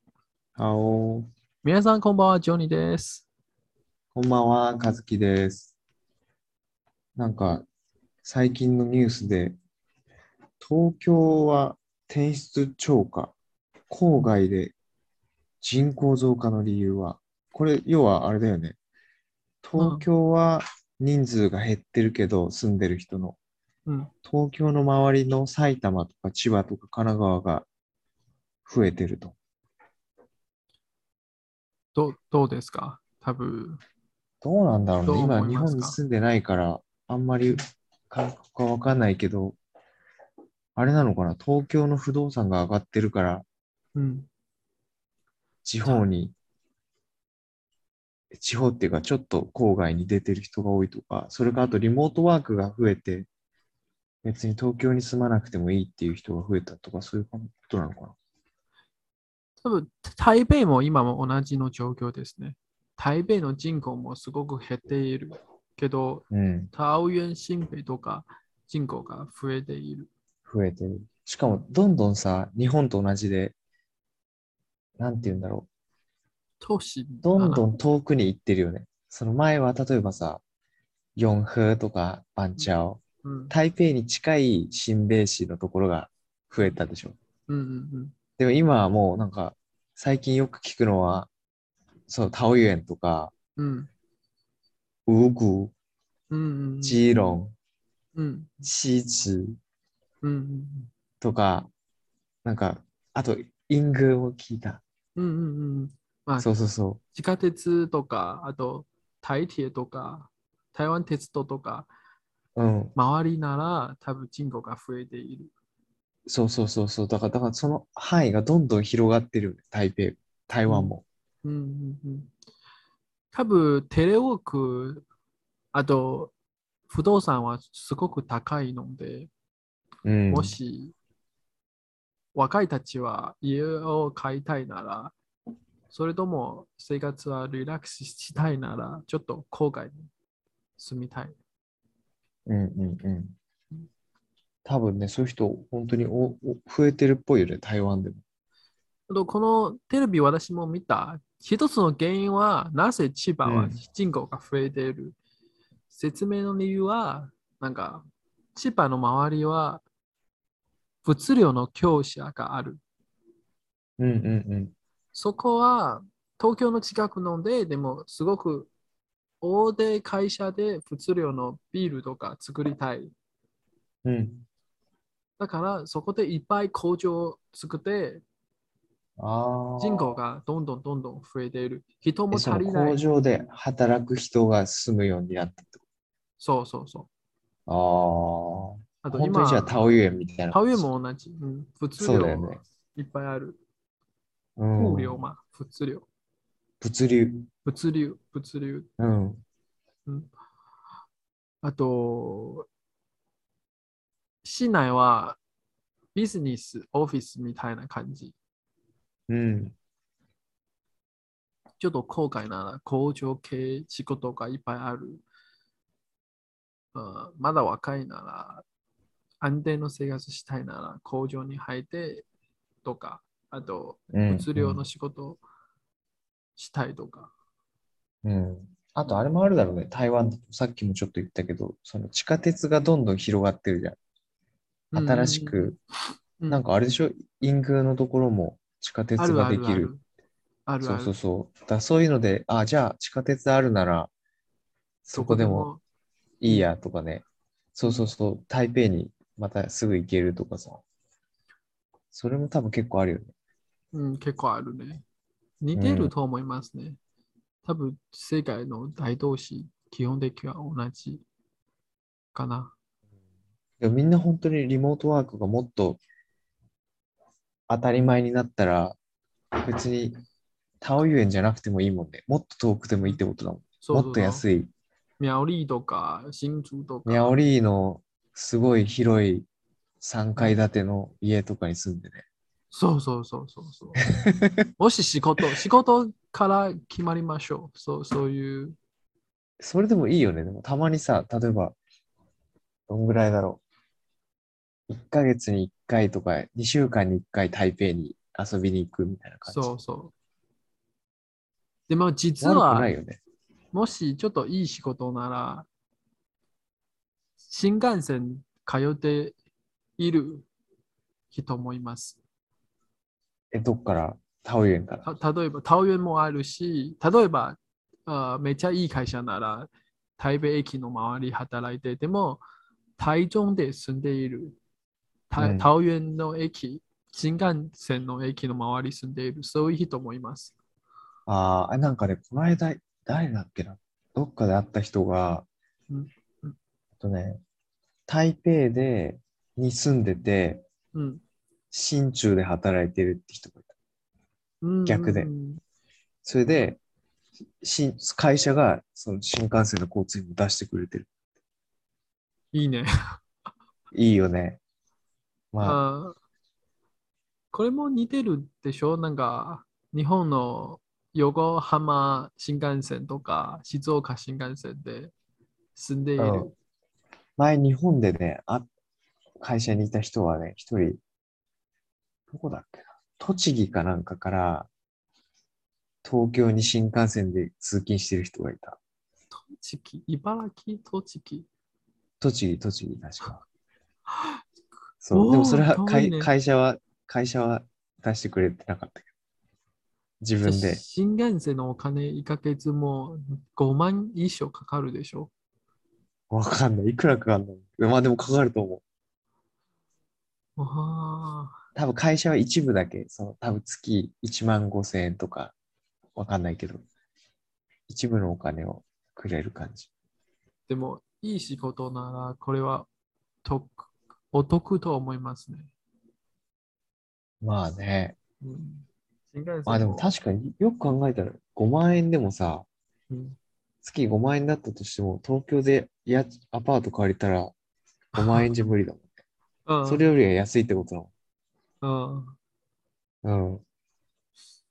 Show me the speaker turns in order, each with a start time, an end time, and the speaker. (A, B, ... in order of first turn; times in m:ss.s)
0:00.6-0:01.3 A
0:01.6-0:03.2 B
0:04.1-0:05.7 A
0:07.2-0:07.6 A
0:08.2-0:09.6 A
0:10.6-0:13.3 A
0:13.9-0:14.7 A
0:15.6-0:18.8 A
0:19.6-0:23.4 A
0:19.8-0:20.0 B
0:24.2-0:27.7 A
0:28.6-0:29.4 A
0:31.9-0:33.8 B
0:34.4-0:39.6 A
0:35.0-0:36.0 B
0:40.8-0:43.4 A
0:43.9-0:44.3 B
0:45.6-0:46.3 A
0:48.3-0:53.3 A
0:54.2-0:58.1 A
0:59.6-1:10.1 B
1:06.3-1:06.7 A
1:10.5-1:13.5 A
1:15.0-1:15.7 A
1:16.6-1:17.7 B
1:17.2-1:20.4 A
1:21.2-1:27.2 A
1:23.2-1:23.5 B
1:27.5-1:28.1 B
1:28.4-1:31.3 A
1:32.1-1:33.3 A
1:33.6-1:33.9 B
1:35.1-1:35.7 A
1:36.3-1:37.4 B
1:36.8-1:37.5 A
1:38.1-1:38.7 B
1:38.6-1:39.6 A
1:40.2-1:40.9 B
1:41.2-1:41.7 A
1:42.4-1:44.8 A
1:45.2-1:46.5 B
1:46.4-1:47.0 A
1:47.1-1:51.9 B
1:52.6-1:52.9 A
1:53.0-1:55.5 B
1:56.3-2:01.0 A
2:00.7-2:02.3 B
2:03.3-2:05.0 B
2:05.7-2:06.3 B
2:06.9-2:09.3 B
2:10.0-2:10.6 A
2:10.3-2:10.9 B
2:12.3-2:15.1 B
2:15.9-2:20.1 B
2:20.8-2:21.4 B
2:22.5-2:23.4 A
2:24.6-2:28.2 A
2:29.1-2:35.2 B
2:33.4-2:33.8 A
2:35.9-2:39.8 B
2:41.0-2:42.8 B
2:44.0-2:44.7 A
2:45.1-2:48.7 B
2:49.4-2:53.1 B
2:54.0-2:54.4 A
2:55.4-2:58.2 B
2:59.2-3:00.2 A
2:59.8-3:03.0 B
3:02.3-3:05.8 A
3:06.4-3:07.1 B
3:07.7-3:10.8 A
3:09.0-3:09.8 B
3:10.5-3:13.6 B
3:12.0-3:12.6 A
3:14.6-3:15.2 A
3:14.8-3:16.0 B
3:16.8-3:17.5 A
3:17.6-3:18.9 B
3:19.0-3:19.4 A
3:21.6-3:22.7 B
3:24.4-3:25.4 B
3:26.1-3:28.3 B
3:29.3-3:29.7 A
3:31.8-3:35.2 B
3:36.9-3:38.6 B
3:39.4-3:42.2 B
3:42.8-3:45.4 B
3:44.1-3:44.8 A
3:46.6-3:47.3 B
3:48.2-3:54.0 A
3:54.9-3:55.8 B
3:54.9-3:55.8 A
3:56.5-3:59.9 A
3:59.2-4:00.0 B
4:00.7-4:01.1 B
4:00.8-4:04.1 A
4:05.0-4:05.7 A
4:05.1-4:05.8 B
4:06.4-4:10.8 A
4:07.8-4:08.1 B
4:12.1-4:13.3 A
4:13.9-4:15.0 B
4:15.6-4:17.0 B
4:15.7-4:16.1 A
4:17.6-4:21.2 B
4:22.3-4:22.7 B
4:23.8-4:26.0 A
4:27.7-4:29.0 A
4:29.5-4:30.2 A
4:30.8-4:34.7 A
4:33.8-4:34.4 B
4:35.2-4:37.4 B
4:37.0-4:39.5 A
4:40.0-4:42.2 A
4:42.7-4:44.2 B
4:44.2-4:44.6 A
4:44.8-4:48.8 B
4:49.6-4:51.8 A
4:52.9-4:53.6 A
4:54.9-4:59.7 A
4:59.4-5:00.1 B
5:01.9-5:02.9 B
5:02.4-5:03.2 A
5:03.7-5:05.7 B
5:07.5-5:09.4 B
5:10.0-5:10.4 B
5:11.3-5:12.2 B
5:13.5-5:15.0 A
5:15.0-5:22.4 B
5:23.0-5:24.6 B
5:25.3-5:30.5 B
5:25.4-5:25.7 A
5:31.3-5:35.4 A
5:35.9-5:36.6 B
5:37.0-5:37.4 A
5:38.1-5:40.6 A
5:40.9-5:41.2 B
5:41.7-5:43.7 A
5:44.6-5:45.6 B
5:44.8-5:45.3 A
5:46.2-5:46.8 A
5:47.6-5:51.1 A
5:52.5-5:52.9 B
5:53.9-5:54.6 A
5:55.5-5:55.8 A
5:55.6-5:56.2 B
5:57.5-6:05.1 B
6:05.7-6:06.5 B
6:06.2-6:06.5 A
6:07.4-6:08.7 A
6:09.4-6:11.0 A
6:12.3-6:14.7 A
6:16.0-6:18.8 A
6:19.3-6:21.5 B
6:22.2-6:23.4 A
6:24.1-6:24.4 B
6:25.0-6:29.1 A
6:25.1-6:26.3 B
6:30.2-6:30.8 A
6:30.4-6:35.3 B
6:36.3-6:38.8 A
6:40.6-6:41.6 B
6:41.8-6:45.5 A
6:46.1-6:46.8 A
6:47.9-6:49.9 A
6:50.7-6:52.9 B
6:53.4-6:55.7 B
6:57.4-6:58.2 A
6:58.4-7:00.1 B
6:59.6-7:02.6 A
7:03.1-7:03.4 B
7:03.8-7:07.5 A
7:08.1-7:08.5 B
7:08.2-7:09.1 A
7:09.7-7:10.0 B
7:09.8-7:11.1 A
7:11.8-7:12.3 B
7:13.2-7:13.6 A